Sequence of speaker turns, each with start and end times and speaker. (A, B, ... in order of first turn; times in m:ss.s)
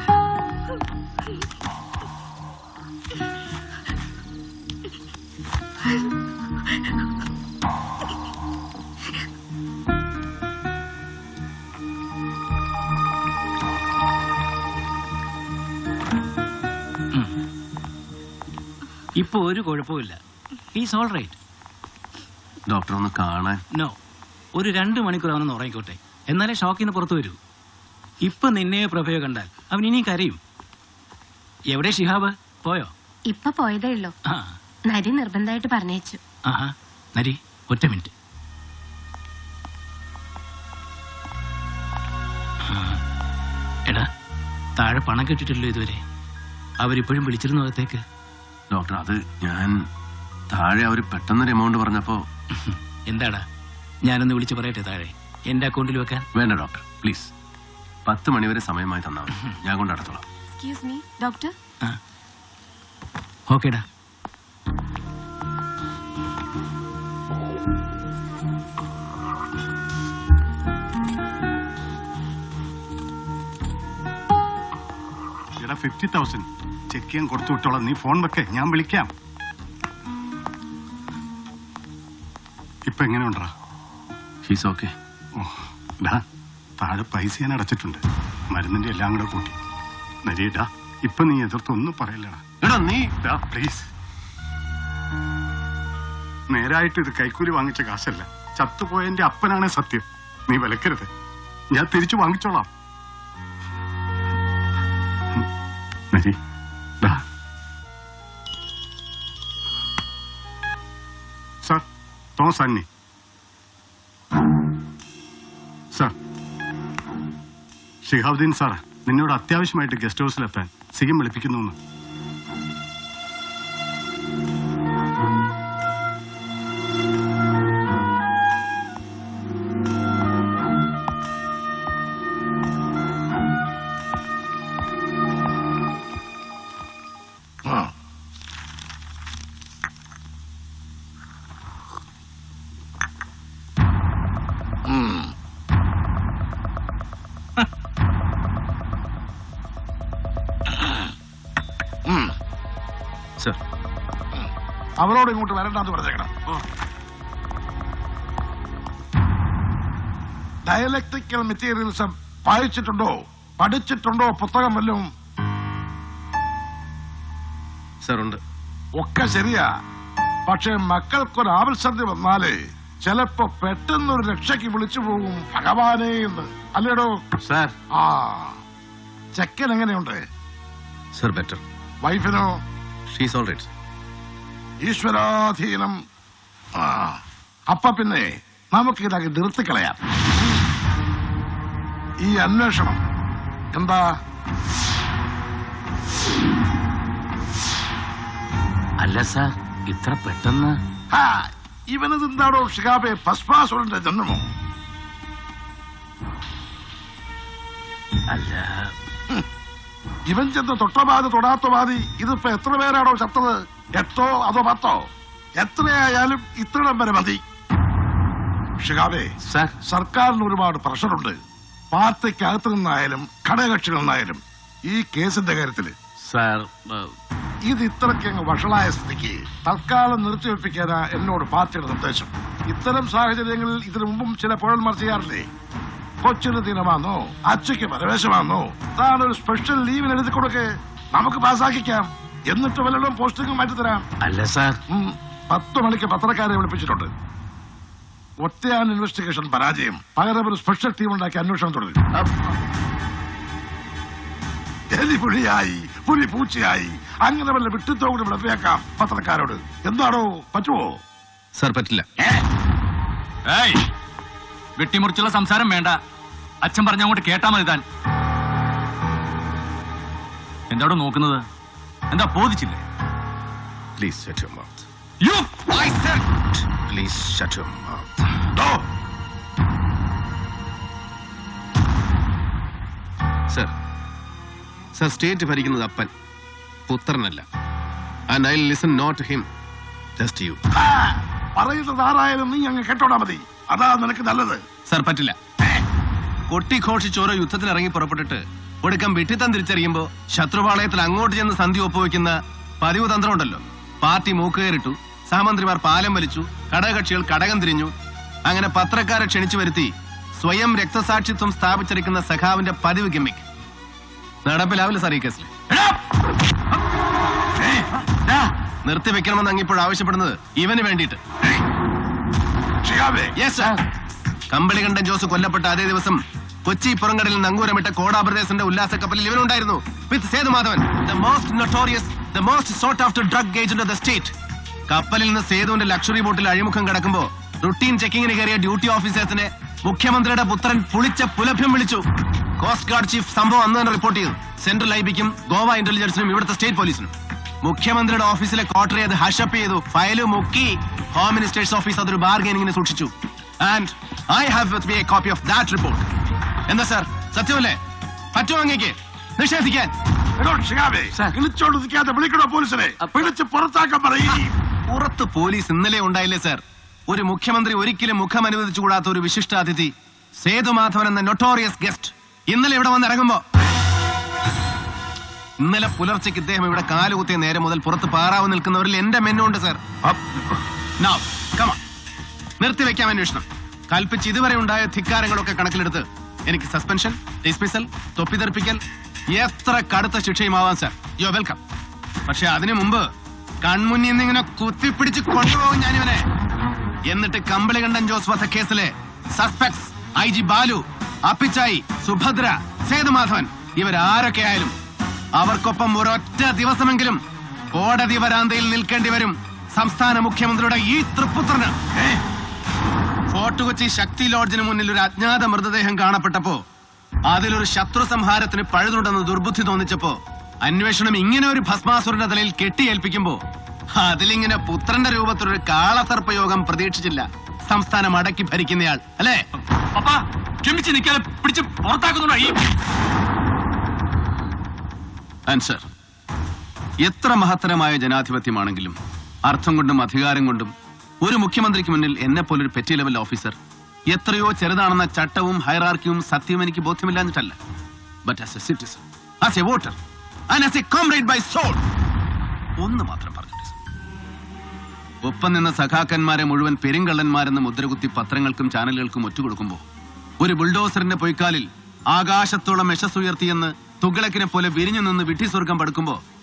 0:19.2-0:20.2 A
0:20.7-0:21.4 A
0:22.7-0:23.6 B
0:24.6-0:27.4 A
0:28.2-0:30.4 A
0:31.7-0:32.9 A
0:33.2-0:34.1 C
0:34.8-0:36.2 C
0:36.5-0:38.1 A
0:42.7-0:43.0 A
0:44.8-0:46.0 A
0:46.8-0:48.0 A
0:48.7-0:49.8 B
0:50.5-0:52.2 B
0:52.6-0:53.4 A
0:54.1-0:56.2 A
0:56.3-0:57.3 B
0:58.0-1:00.2 B
1:00.6-1:01.5 C
1:03.5-1:03.8 A
1:15.6-1:19.1 D
1:22.9-1:23.5 D
1:24.4-1:24.9 B
1:25.4-1:26.2 D
1:26.8-1:29.6 D
1:30.2-1:32.4 D
1:32.6-1:33.1 B
1:33.2-1:33.9 D
1:36.5-1:41.1 D
1:41.7-1:42.7 D
1:52.4-1:52.9 D
1:58.0-2:01.8 D
2:17.6-2:17.9 E
2:24.9-2:25.3 E
2:30.7-2:31.0 E
2:35.0-2:36.3 E
2:40.7-2:45.0 E
2:48.0-2:48.4 B
2:49.0-2:49.7 E
2:50.5-2:57.1 E
2:58.0-2:58.6 E
2:59.4-3:00.2 E
3:01.1-3:01.6 B
3:02.0-3:02.5 E
3:03.1-3:03.7 B
3:04.8-3:05.9 E
3:06.8-3:07.2 E
3:07.7-3:10.0 E
3:12.2-3:13.0 E
3:13.7-3:14.0 E
3:19.0-3:20.7 A
3:21.1-3:24.4 E
3:28.3-3:28.9 A
3:30.3-3:35.0 E
3:35.6-3:37.4 E
3:38.8-3:39.3 E
3:39.9-3:41.3 E
3:41.9-3:45.9 E
3:46.3-3:46.9 F
3:47.7-3:55.4 E
3:56.2-4:04.0 E
4:04.4-4:04.7 A
4:04.9-4:07.1 E
4:08.4-4:12.0 E
4:14.9-4:20.9 E
4:21.6-4:22.0 B
4:23.5-4:23.8 F
4:24.8-4:26.0 F
4:26.6-4:27.8 F
4:30.7-4:31.4 F
4:32.1-4:32.8 F
4:34.0-4:34.8 B
4:35.6-4:38.1 B
4:44.9-4:46.1 B
4:46.9-4:47.4 B
4:48.3-4:49.5 B
4:50.2-4:50.6 B
4:50.8-4:54.6 E
4:54.9-4:55.4 B
4:56.5-5:07.9 B
5:08.5-5:13.4 B
5:14.4-5:15.5 B
5:17.7-5:18.4 E
5:18.8-5:21.2 B
5:22.8-5:23.3 E
5:23.4-5:23.8 B
5:24.5-5:34.3 B
5:34.9-5:42.0 B
5:42.6-5:47.1 B
5:47.6-5:56.0 B
5:56.7-5:57.8 B
5:58.3-5:59.9 B
6:00.4-6:04.5 E
6:04.9-6:13.4 B
6:15.6-6:19.8 B
6:21.0-6:21.8 B
6:22.6-6:28.8 B
6:29.3-6:31.6 B
6:32.3-6:33.0 B
6:33.6-6:36.2 B
6:37.1-6:44.7 B
6:45.4-6:47.2 B
6:47.7-6:51.8 B
6:53.3-6:56.6 B
6:57.3-7:03.4 B
7:04.0-7:09.4 B
7:10.0-7:12.6 F
7:15.5-7:15.8 B
7:17.0-7:23.6 B
7:24.1-7:27.6 B
7:28.2-7:30.0 B
7:30.5-7:31.8 B
7:32.8-7:33.7 B
7:35.2-7:39.8 B
7:40.4-7:46.2 B